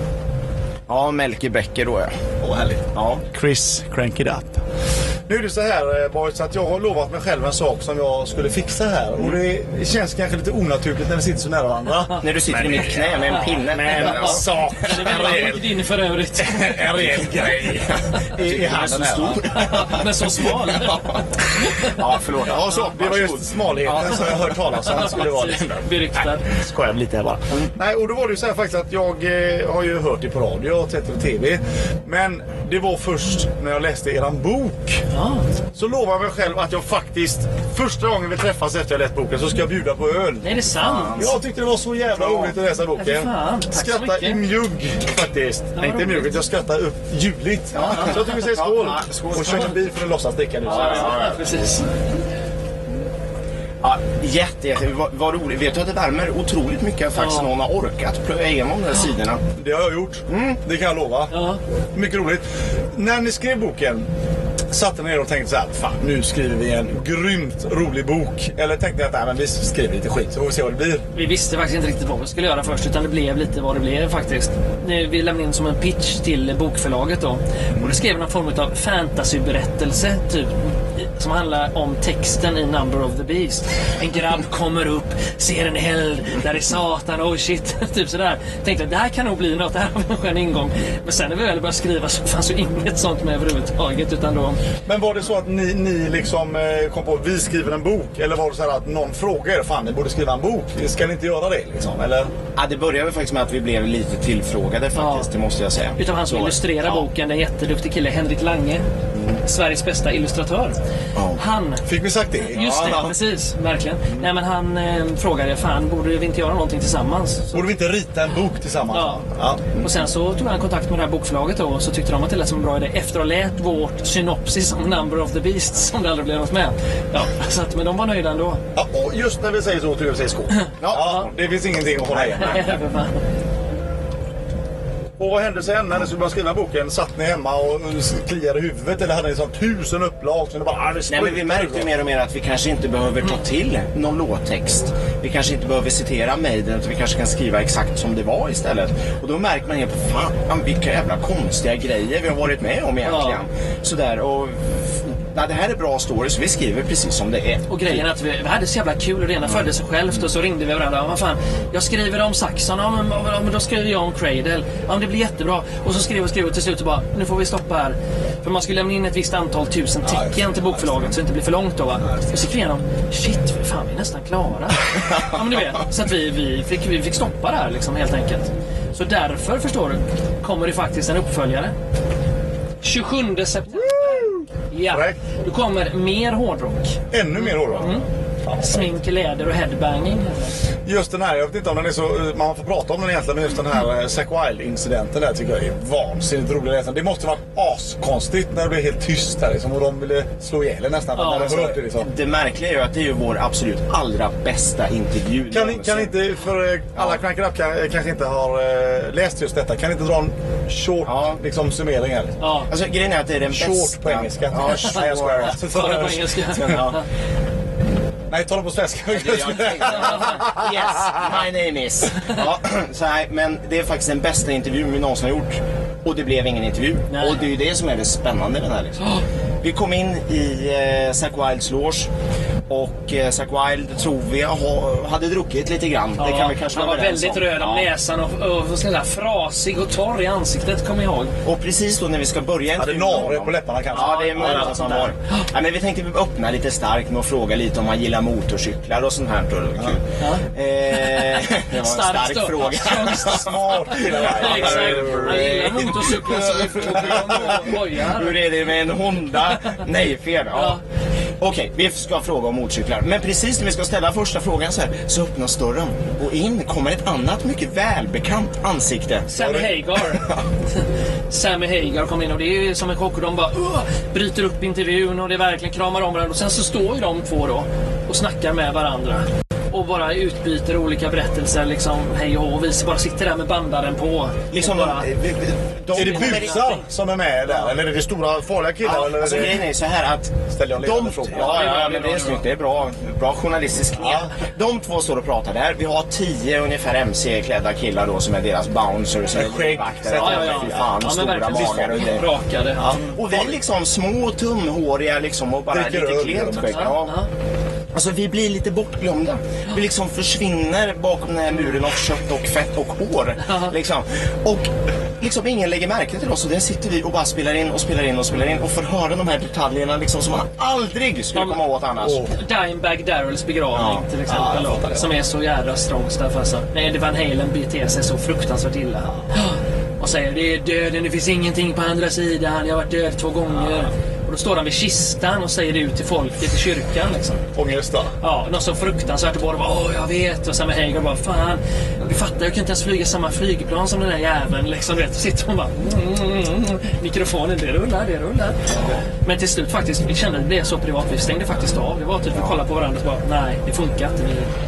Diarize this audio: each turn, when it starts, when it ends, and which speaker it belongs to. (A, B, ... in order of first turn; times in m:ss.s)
0:00.9-0:02.1 A
0:02.4-0:04.6 B
0:02.9-0:03.2 A
0:05.3-0:15.7 B
0:12.2-0:15.1 A
0:13.9-0:16.8 C
0:16.4-0:19.8 B
0:16.9-0:25.1 A
0:19.4-0:21.9 C
0:22.4-0:35.0 B
0:24.8-0:26.5 C
0:35.1-0:35.4 C
0:35.7-0:51.2 B
0:40.4-0:41.2 C
0:40.7-0:41.4 A
0:42.2-0:44.4 C
0:45.8-0:46.3 C
0:47.7-0:49.8 A
0:50.6-0:51.4 A
0:50.6-0:51.8 C
0:53.8-0:59.4 A
0:57.1-0:57.5 C
0:59.6-1:01.3 B
1:00.3-1:00.6 A
1:01.3-1:01.6 C
1:01.9-1:04.0 B
1:04.7-1:11.0 B
1:11.1-1:34.6 C
1:34.9-1:42.3 B
1:42.6-1:47.1 A
1:44.9-1:45.3 C
1:46.0-1:48.8 C
1:49.4-1:50.8 C
1:51.2-1:51.4 A
1:51.3-1:51.8 C
1:51.8-1:52.8 B
1:52.4-1:57.7 C
1:52.5-1:53.2 A
1:57.5-1:59.6 B
1:58.9-1:59.2 C
1:59.8-2:08.6 C
2:08.8-2:12.6 B
2:10.8-2:11.3 A
2:12.1-2:12.7 A
2:12.3-2:13.2 C
2:15.2-2:21.9 B
2:21.1-2:38.1 A
2:33.0-2:33.4 C
2:37.7-3:01.7 C
2:50.0-2:50.9 B
3:02.8-3:08.0 C
3:04.0-3:04.3 B
3:04.9-3:05.2 B
3:07.1-3:08.9 B
3:08.6-3:10.5 C
3:10.8-3:22.1 B
3:21.2-3:21.6 C
3:21.3-3:26.1 A
3:25.5-3:32.4 B
3:31.0-3:31.4 A
3:32.4-3:32.7 C
3:32.7-3:35.6 A
3:33.5-3:36.6 B
3:34.7-3:37.0 C
3:36.5-3:37.0 A
3:38.3-3:40.7 B
3:39.1-3:52.1 A
3:47.1-3:47.5 C
3:52.7-3:57.9 A
3:56.2-4:01.3 C
4:01.4-4:20.8 A
4:02.8-4:05.1 B
4:03.9-4:05.3 C
4:10.2-4:18.4 C
4:13.3-4:17.6 B
4:20.5-4:20.8 C
4:21.4-4:29.3 A
4:29.3-4:30.3 C
4:29.3-4:29.8 B
4:30.0-4:30.4 A
4:31.3-4:45.1 C
4:44.5-4:46.6 A
4:45.9-4:49.6 B
4:46.0-4:46.8 C
4:47.5-4:47.7 C
4:48.8-5:02.3 A
4:50.5-4:51.7 B
4:51.3-4:52.4 C
4:54.0-4:54.3 B
4:59.3-5:02.1 B
5:00.1-5:02.9 C
5:02.8-5:03.6 B
5:03.1-5:07.1 A
5:05.7-5:06.9 B
5:06.6-5:07.3 C
5:07.9-5:14.7 A
5:15.2-5:22.2 A
5:21.3-5:21.6 C
5:22.0-5:22.3 B
5:22.3-5:37.4 C
5:23.7-5:25.0 A
5:24.4-5:25.0 B
5:37.5-5:38.1 B
5:38.2-5:54.5 C
5:48.7-5:49.0 A
5:52.3-5:52.6 A